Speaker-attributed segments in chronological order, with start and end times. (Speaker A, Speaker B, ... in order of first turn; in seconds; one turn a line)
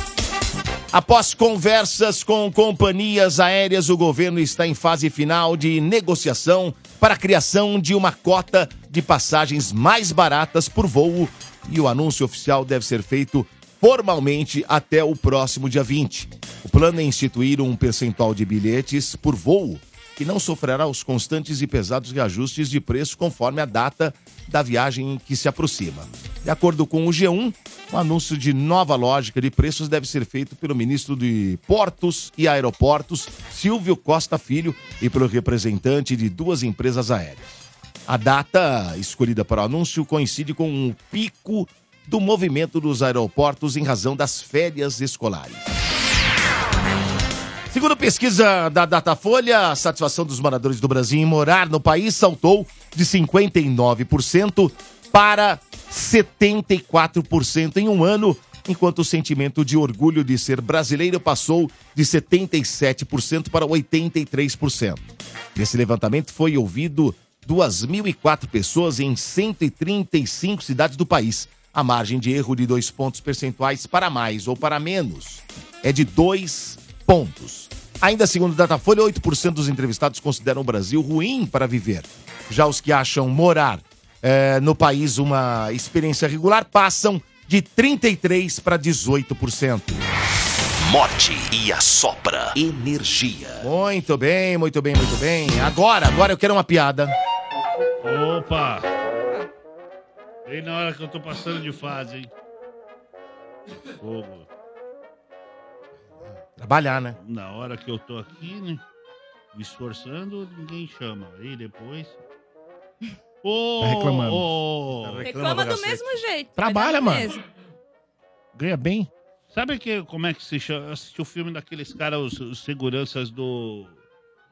Speaker A: 0.9-45.7
Speaker A: 47.7-65.0
Speaker A: 65.5-90.0
Speaker B: 90.8-93.6
Speaker A: 93.6-97.2
Speaker C: 98.0-98.8
Speaker C: 100.5-102.3
Speaker C: 104.0-104.5
Speaker A: 106.6-107.2
Speaker C: 107.2-108.8
Speaker C: 109.5-112.2
Speaker C: 113.4-115.2
Speaker D: 113.8-114.5
Speaker A: 115.0-116.2
Speaker E: 115.2-117.4
Speaker D: 116.5-117.3
Speaker D: 118.5-119.1
Speaker C: 119.5-123.9